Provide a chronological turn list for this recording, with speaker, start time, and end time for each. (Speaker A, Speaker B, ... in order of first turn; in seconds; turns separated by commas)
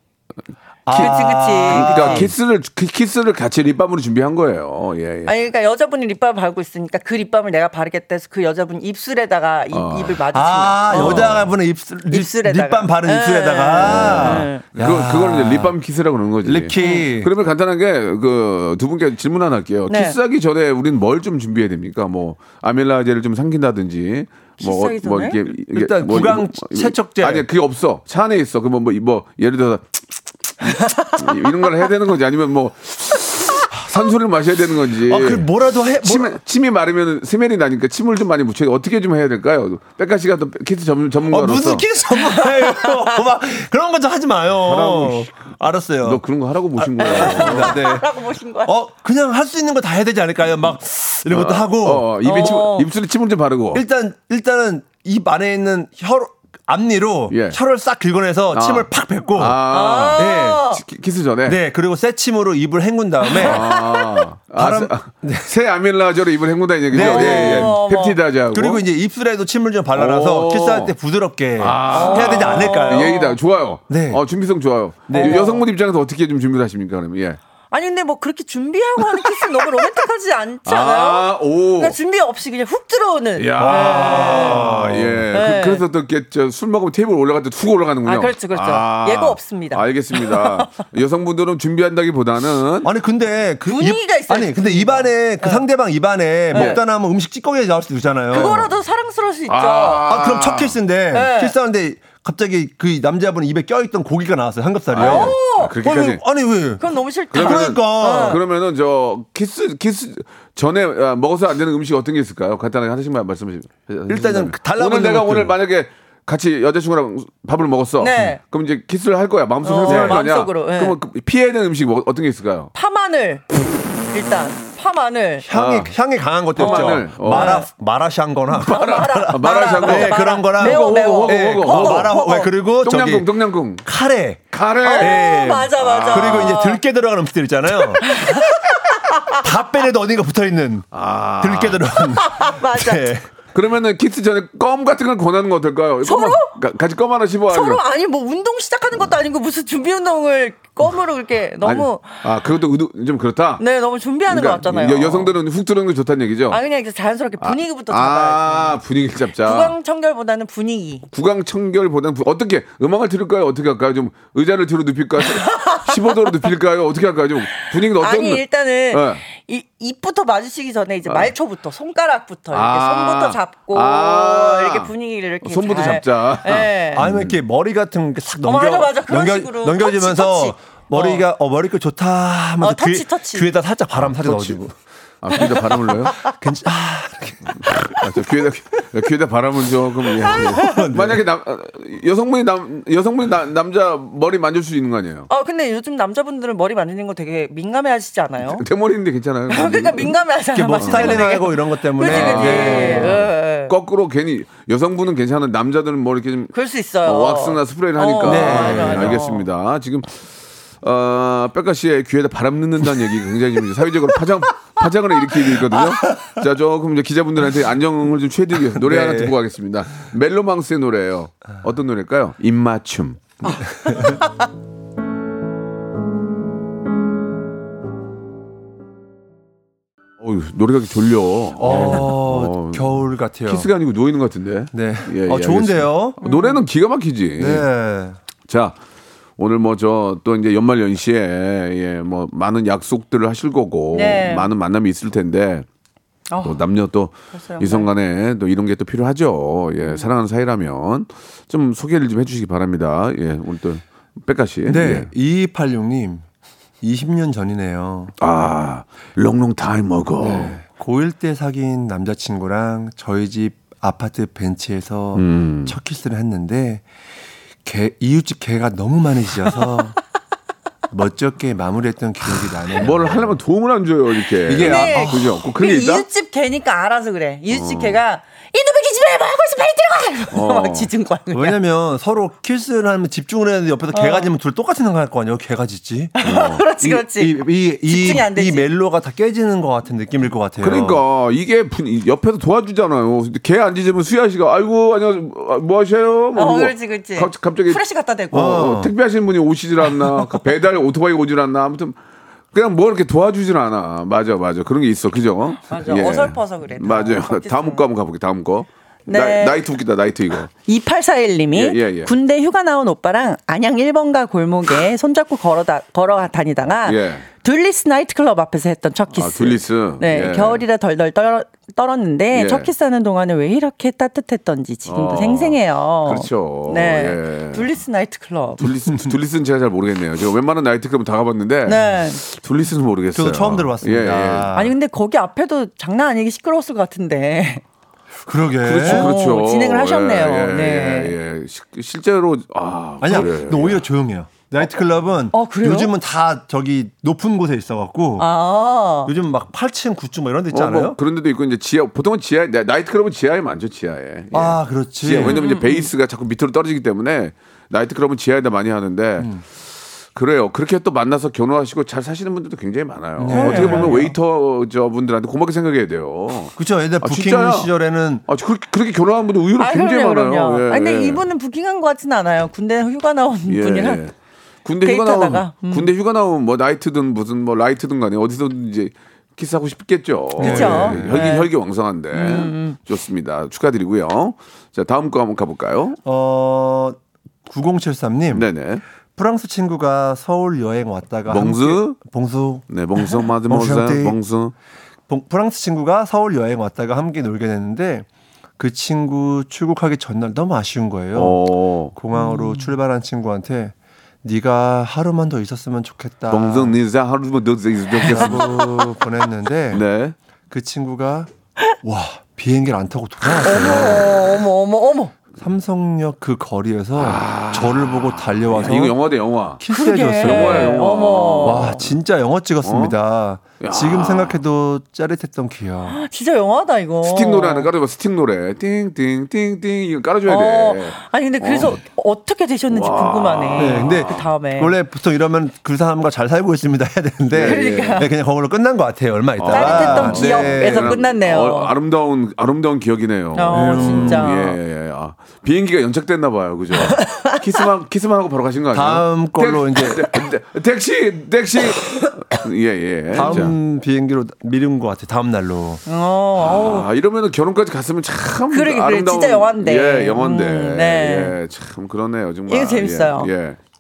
Speaker A: 0.9-2.3, Speaker B: 0.9-2.3, Speaker C: 1.7-5.3, Speaker B: 5.3-11.4, Speaker C: 9.7-10.2, Speaker A: 10.3-15.8, Speaker C: 10.9-11.5, Speaker B: 12.1-14.6, Speaker C: 13.8-30.1, Speaker A: 16.4-17.3, Speaker B: 16.8-17.1, Speaker B: 19.9-20.2, Speaker B: 24.6-25.4, Speaker A: 25.7-27.5, Speaker C: 31.1-35.5, Speaker A: 35.1-36.3, Speaker C: 36.0-41.9, Speaker A: 41.3-46.2, Speaker B: 42.2-43.0, Speaker C: 44.6-45.5, Speaker C: 46.0-47.8, Speaker A: 46.8-48.1, Speaker B: 47.0-48.7, Speaker A: 48.6-52.1, Speaker C: 51.3-53.8, Speaker B: 52.2-52.9, Speaker A: 53.7-59.6, Speaker C: 57.3-57.6, Speaker C: 58.5-61.6, Speaker B: 59.7-60.8, Speaker A: 60.1-60.6, Speaker A: 61.5-63.7, Speaker B: 63.2-64.2, Speaker C: 63.4-68.8, Speaker A: 64.6-65.5, Speaker A: 66.9-67.8, Speaker B: 67.0-68.2, Speaker A: 68.5-73.2, Speaker C: 70.0-70.9, Speaker C: 71.6-77.4, Speaker B: 71.9-73.4, Speaker A: 73.9-74.2, Speaker A: 75.1-75.5, Speaker B: 75.1-75.6, Speaker B: 77.7-84.7, Speaker C: 80.7-82.0, Speaker C: 83.4-92.9, Speaker A: 83.6-85.2, Speaker B: 85.3-85.8, Speaker B: 88.0-90.7, Speaker A: 92.8-98.7, Speaker B: 93.7-95.6, Speaker B: 96.5-96.8, Speaker C: 96.5-96.8, Speaker B: 98.3-100.1, Speaker C: 99.5-100.8, Speaker A: 100.0-108.4, Speaker B: 101.1-101.5, Speaker C: 104.9-106.2, Speaker B: 105.0-105.7, Speaker B: 106.8-108.4, Speaker C: 107.3-122.7, Speaker A: 114.1-115.6, Speaker B: 118.0-118.4, Speaker B: 119.6-121.0, Speaker A: 119.8-120.2, Speaker B: 122.7-123.5, Speaker B: 124.1-125.5, Speaker A: 125.4-138.2, Speaker C: 125.5-125.9, Speaker C: 126.6-127.6, Speaker B: 126.6-127.7, Speaker C: 128.5-132.1, Speaker B: 128.7-132.5, Speaker C: 132.8-133.8, Speaker C: 134.5-136.6, Speaker B: 134.8-136.8, Speaker B: 138.0-138.6, Speaker A: 139.3-140.9, Speaker C: 140.9-141.9, Speaker A: 141.4-143.3, Speaker B: 142.1-143.1, Speaker C: 143.5-147.8, Speaker B: 146.0-146.5, Speaker B: 147.5-152.2, Speaker C: 151.6-153.6, Speaker B: 153.6-155.3, Speaker C: 154.3-156.6, Speaker B: 156.5-158.8, Speaker C: 157.4-159.8, Speaker B: 159.4-161.1, Speaker C: 161.1-169.2, Speaker B: 165.3-165.9, Speaker B: 167.6-177.1, Speaker C: 171.1-171.3, Speaker C: 172.5-177.4, Speaker A: 176.9-184.8, Speaker B: 178.4-181.2, Speaker B: 182.6-183.5, Speaker C: 184.0-184.6, Speaker C: 185.2-186.2, Speaker A: 185.3-188.3, Speaker C: 187.7-195.3, Speaker A: 190.2-191.2, Speaker B: 195.3-198.7, Speaker C: 198.4-200.2, Speaker B: 199.5-203.7, Speaker A: 200.5-203.2, Speaker C: 200.8-201.2, Speaker C: 202.0-210.2, Speaker B: 206.5-209.4, Speaker A: 208.2-209.2, Speaker C: 210.8-223.4, Speaker A: 218.8-219.3, Speaker A: 223.6-224.2, Speaker C: 230.2-237.7, Speaker A: 231.6-233.7, Speaker A: 234.7-236.2, Speaker B: 236.2-236.6, Speaker A: 237.4-238.2, Speaker C: 238.5-238.8, Speaker C: 239.4-245.7, Speaker B: 243.9-244.5, Speaker B: 246.3-246.6, Speaker C: 246.4-255.1, Speaker B: 247.3-247.9, Speaker A: 254.7-256.2, Speaker A: 256.8-258.1, Speaker C: 258.2-260.6, Speaker A: 260.2-266.8, Speaker C: 265.1-265.8, Speaker A: 267.6-270.0, Speaker A: 270.9-273.4, Speaker C: 272.8-276.1, Speaker A: 274.4-275.3, Speaker B: 274.6-281.6, Speaker C: 277.5-278.0, Speaker C: 280.3-280.9, Speaker A: 281.3-286.2, Speaker B: 283.9-284.3, Speaker B: 286.2-288.7, Speaker C: 286.2-286.6, Speaker A: 286.8-291.0, Speaker C: 290.6-297.8, Speaker B: 296.4-298.7, Speaker A: 298.3-298.9, Speaker C: 298.3-302.0, Speaker C: 302.5-310.5, Speaker B: 305.7-307.9, Speaker B: 309.1-309.6, Speaker B: 310.6-328.6, Speaker C: 311.5-312.1, Speaker C: 316.8-317.3, Speaker C: 319.1-320.6, Speaker C: 322.3-322.7, Speaker C: 324.9-327.7, Speaker C: 328.6-334.5, Speaker B: 331.7-332.2, Speaker A: 333.1-334.7, Speaker B: 334.5-337.6, Speaker A: 338.3-339.1, Speaker C: 338.6-343.9, Speaker B: 338.8-341.1, Speaker A: 343.0-348.3, Speaker B: 345.3-345.9, Speaker B: 348.2-349.1, Speaker A: 349.1-351.0, Speaker C: 350.5-359.4, Speaker A: 354.3-355.4, Speaker B: 355.3-355.9, Speaker C: 360.1-367.7, Speaker A: 363.2-364.1, Speaker B: 363.3-364.0, Speaker A: 366.6-368.2, Speaker C: 368.3-371.2, Speaker B: 369.6-374.0, Speaker C: 373.5-386.0, Speaker B: 374.8-375.9, Speaker A: 380.4-381.3, Speaker B: 380.4-381.5, Speaker B: 382.1-382.8, Speaker A: 386.1-388.5, Speaker C: 388.3-388.8, Speaker A: 389.2-392.6, Speaker C: 391.3-392.0, Speaker C: 392.7-394.5, Speaker A: 393.5-394.2, Speaker A: 395.1-398.1, Speaker A: 398.6-401.4, Speaker C: 401.1-401.9, Speaker A: 401.9-406.8, Speaker B: 402.1-402.7, Speaker C: 406.3-409.0, Speaker A: 407.9-409.8, Speaker C: 409.7-410.1, Speaker A: 410.5-411.3, Speaker A: 411.8-414.2, Speaker B: 413.4-415.1, Speaker A: 415.4-419.0, Speaker C: 417.0-419.6, Speaker A: 419.6-420.8, Speaker B: 419.7-421.9, Speaker C: 420.2-421.9, Speaker A: 421.4-426.0, Speaker C: 422.6-422.9, Speaker C: 423.6-424.4, Speaker B: 425.9-427.7, Speaker C: 427.0-431.8, Speaker B: 430.3-434.7, Speaker C: 432.7-434.2, Speaker A: 433.6-441.0, Speaker C: 437.3-438.0, Speaker B: 437.4-438.1, Speaker C: 439.4-453.6, Speaker B: 439.5-441.7, Speaker B: 443.4-444.6, Speaker A: 443.5-444.4, Speaker B: 446.8-447.4, Speaker A: 448.7-450.1, Speaker A: 453.1-455.8, Speaker B: 455.9-456.9, Speaker C: 456.4-463.6, Speaker B: 458.5-461.4, Speaker B: 462.5-463.3